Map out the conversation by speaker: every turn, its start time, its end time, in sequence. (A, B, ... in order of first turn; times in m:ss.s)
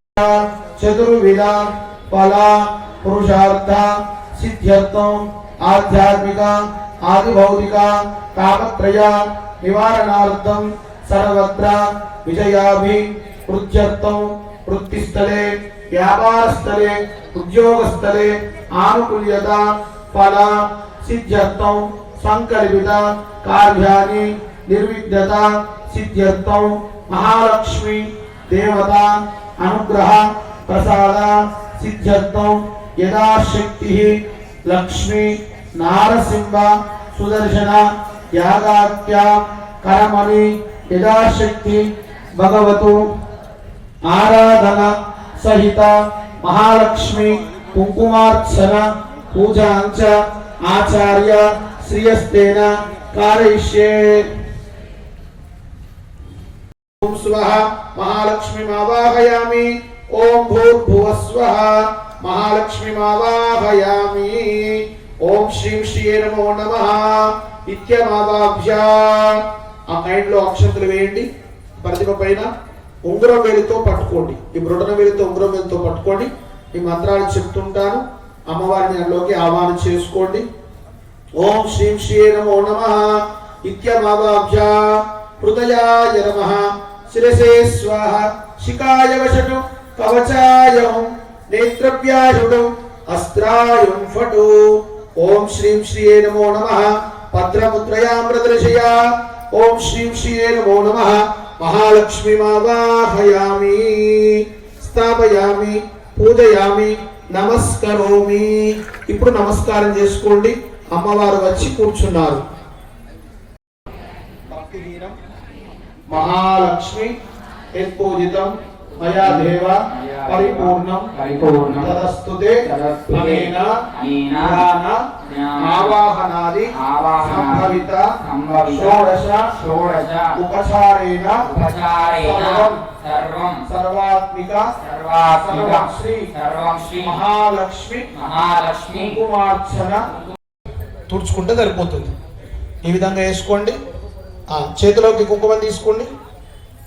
0:00.1-0:41.8 A
0:42.4-0:43.0 A
0:44.1-0:54.3 A
0:57.0-1:12.5 A
1:13.0-1:20.5 A
1:21.4-1:52.4 A
1:54.5-1:55.2 A
1:56.1-1:57.1 A
1:57.8-2:01.1 A
1:59.2-2:02.0 B
2:01.7-2:03.7 A
2:02.6-2:04.6 B
2:04.4-2:05.1 A
2:05.2-2:05.9 B
2:05.6-2:08.1 A
2:06.7-2:10.4 B
2:08.6-2:09.5 A
2:10.3-2:11.5 A
2:11.5-2:13.6 B
2:12.2-2:12.8 A
2:13.7-2:14.7 A
2:14.8-2:17.2 B
2:15.3-2:16.3 A
2:17.0-2:18.1 A
2:18.1-2:19.2 B
2:19.0-2:20.0 A
2:21.1-2:22.1 A
2:22.9-2:23.8 A
2:24.5-2:26.1 A